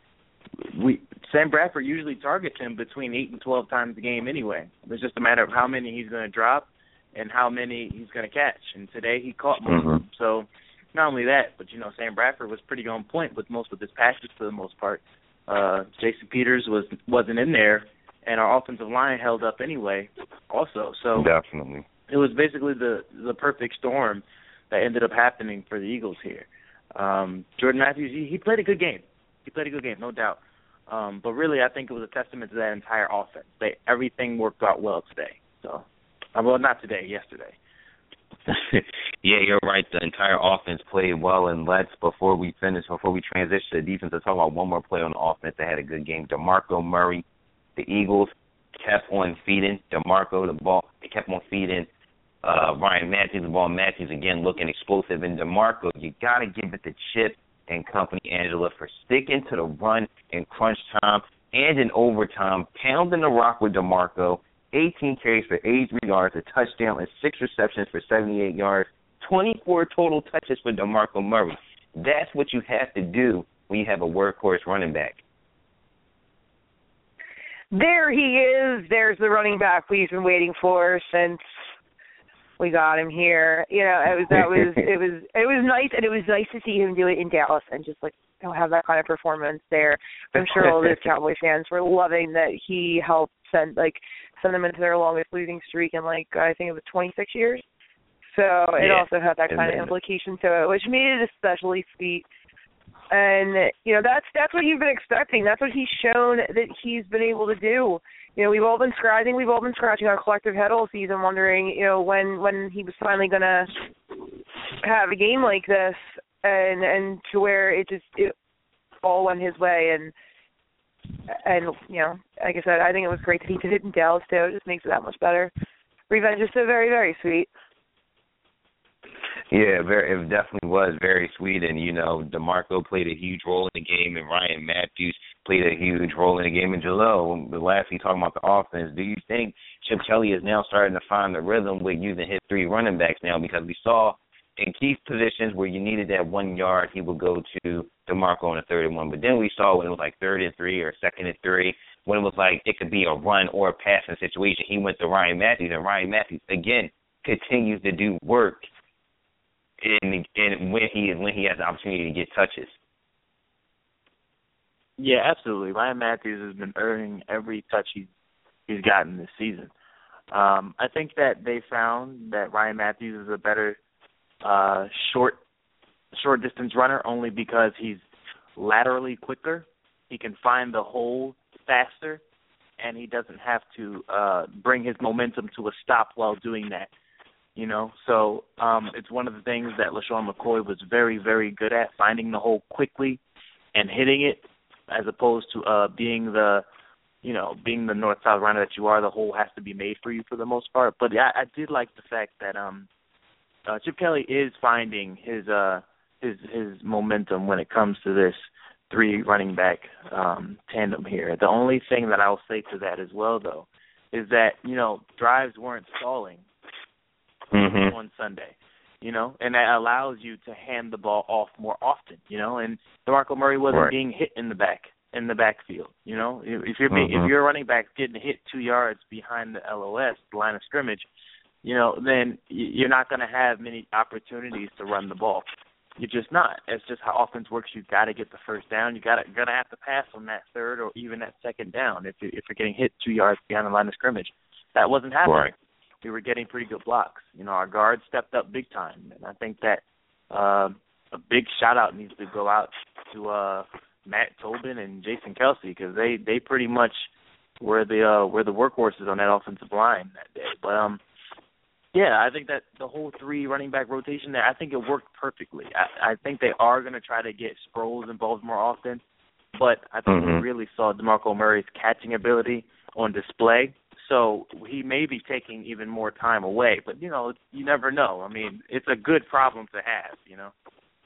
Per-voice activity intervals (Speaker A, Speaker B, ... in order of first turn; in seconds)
Speaker A: 0.6-21.3, 22.1-37.5, 165.0-168.1, 168.7-169.7, 170.3-173.8, 174.4-175.4, 176.1-178.0, 178.6-182.2, 182.8-186.9, 187.6-193.2, 193.7-196.6, 197.2-202.9, 203.7-216.4, 217.8-231.1, 231.6-245.5, 246.0-257.1, 257.6-261.0, 261.9-269.0, 269.5-280.5
Speaker B: 9.7-10.0, 21.1-21.9, 38.5-47.2, 47.8-51.9, 52.4-75.2, 98.8-99.9, 129.5-158.7, 159.8-162.7, 217.5-217.9, 226.9-227.3, 245.2-245.5, 270.1-270.4
Speaker C: 77.7-81.4, 82.6-97.6, 98.3-102.2, 103.1-113.7, 114.8-118.3, 119.0-120.1, 121.3-125.5, 126.1-127.5